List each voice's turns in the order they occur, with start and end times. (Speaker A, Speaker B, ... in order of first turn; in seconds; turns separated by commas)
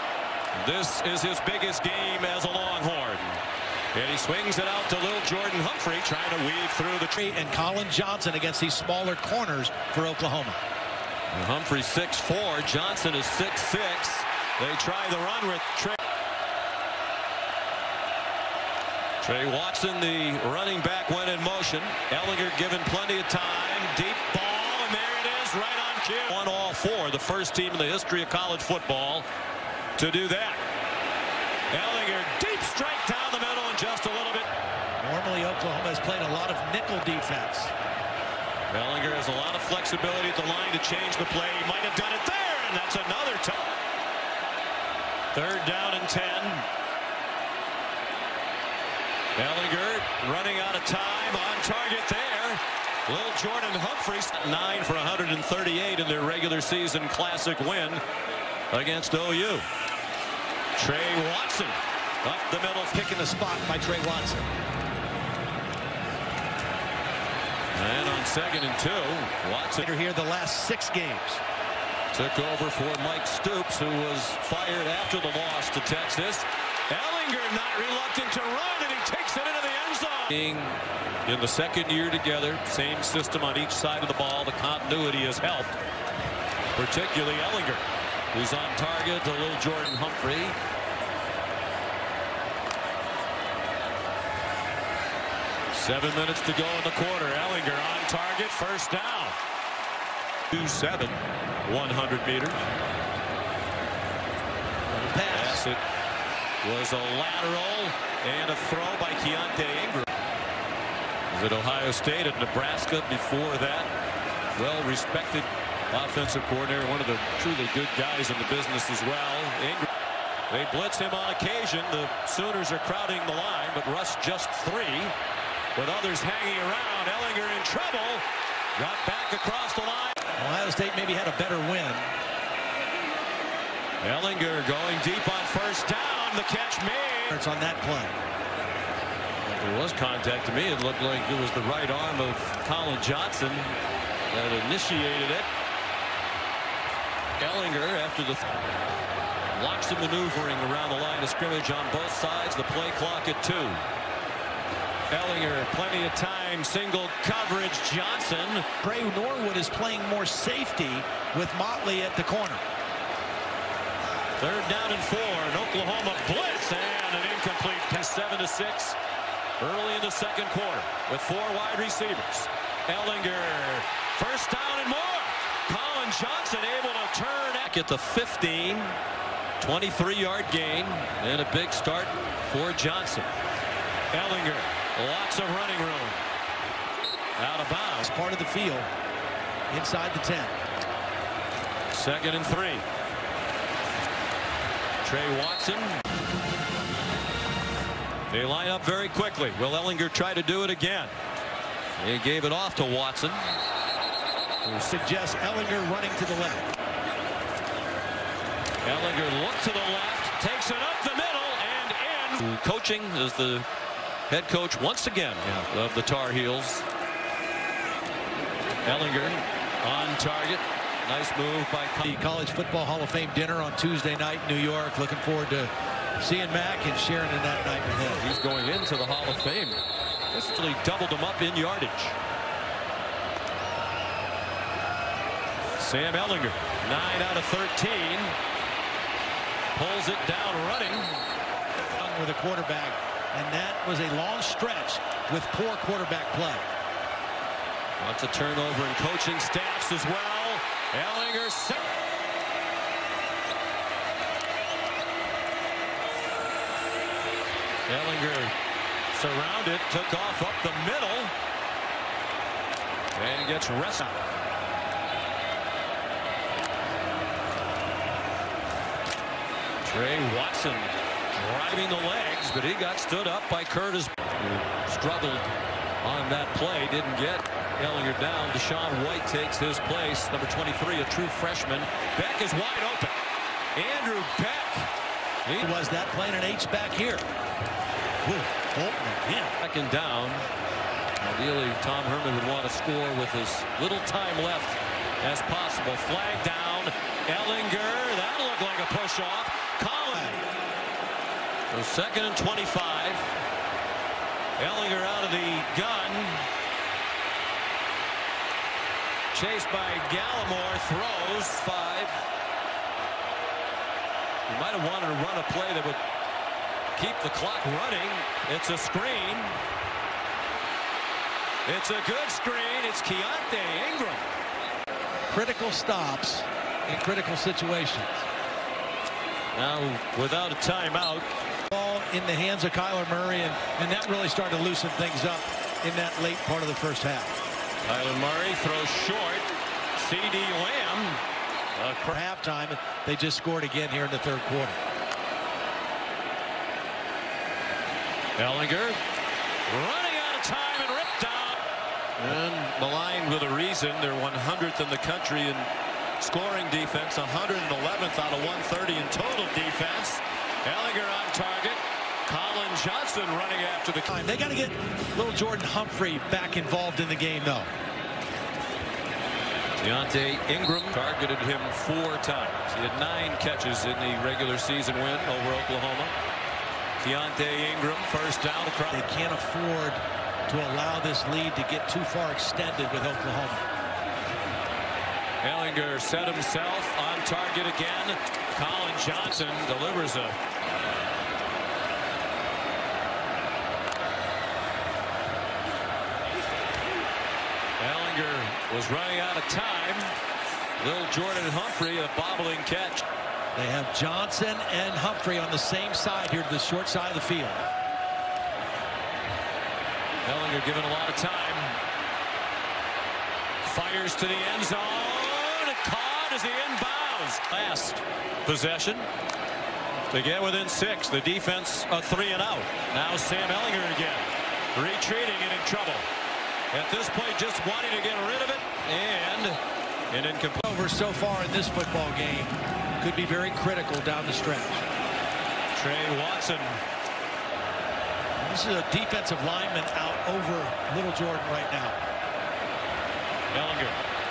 Speaker A: 0.5-3.4, Speaker A: 3.9-7.2, Speaker B: 7.2-10.6, Speaker A: 11.3-16.0, Speaker A: 19.2-29.2, Speaker A: 30.0-30.6, Speaker A: 31.7-34.5, Speaker B: 35.0-37.7, Speaker A: 38.7-43.7, Speaker A: 45.3-46.7, Speaker A: 49.4-58.0, Speaker A: 58.7-59.6, Speaker A: 60.8-63.0, Speaker B: 62.9-64.5, Speaker A: 67.7-69.8, Speaker B: 69.8-71.4, Speaker A: 72.1-85.8, Speaker A: 86.7-90.5, Speaker A: 95.7-99.3, Speaker A: 100.5-102.7, Speaker B: 104.9-105.6, Speaker A: 105.3-105.8, Speaker A: 106.6-110.1, Speaker A: 111.3-113.9, Speaker A: 114.6-119.9, Speaker A: 120.5-125.1, Speaker A: 125.7-128.2, Speaker A: 128.8-130.2, Speaker B: 130.4-132.1, Speaker A: 134.0-137.4, Speaker B: 137.3-138.2, Speaker A: 139.4-143.8, Speaker A: 144.3-145.5, Speaker A: 147.4-148.4, Speaker A: 149.5-153.8, Speaker A: 155.1-158.7, Speaker B: 158.8-162.6, Speaker A: 164.4-169.0, Speaker A: 169.6-179.0, Speaker A: 179.6-183.3, Speaker A: 184.1-186.2, Speaker A: 187.4-188.1, Speaker B: 188.0-188.9, Speaker B: 189.7-190.5, Speaker A: 191.9-192.8, Speaker A: 195.0-196.0, Speaker A: 198.3-201.1, Speaker A: 202.0-203.5, Speaker B: 204.6-206.7, Speaker A: 208.8-213.7, Speaker A: 214.3-216.8, Speaker A: 218.8-222.2, Speaker B: 222.0-228.2, Speaker A: 228.0-232.2, Speaker A: 235.8-238.3, Speaker A: 239.7-241.2, Speaker B: 242.0-246.7, Speaker A: 248.0-251.9, Speaker A: 257.9-258.5, Speaker A: 259.1-261.3, Speaker A: 263.1-264.2, Speaker A: 269.8-275.5, Speaker A: 276.0-283.1, Speaker A: 283.7-284.9, Speaker A: 285.4-285.7, Speaker B: 285.6-287.2, Speaker B: 288.2-289.5, Speaker A: 289.6-290.5, Speaker A: 291.2-300.4, Speaker A: 301.7-303.3, Speaker A: 304.6-306.5, Speaker A: 309.3-312.2, Speaker A: 314.5-316.0, Speaker A: 316.9-319.6, Speaker A: 321.6-324.3, Speaker B: 325.3-328.2, Speaker A: 329.5-331.3, Speaker B: 331.7-337.4, Speaker A: 337.9-341.2, Speaker A: 341.8-342.1, Speaker B: 342.1-344.8, Speaker A: 348.4-349.0, Speaker A: 349.7-351.6, Speaker A: 352.2-364.1, Speaker B: 364.1-367.7, Speaker A: 369.8-376.1, Speaker A: 377.0-379.1, Speaker B: 378.9-383.6, Speaker A: 385.4-390.4, Speaker A: 397.8-400.1, Speaker A: 400.8-403.0, Speaker B: 403.5-407.6, Speaker A: 410.2-411.8, Speaker A: 413.6-419.1, Speaker A: 420.1-426.1, Speaker A: 426.7-429.6, Speaker A: 430.1-430.6, Speaker B: 430.6-434.8, Speaker A: 435.7-436.8, Speaker B: 438.4-442.0, Speaker A: 443.5-444.0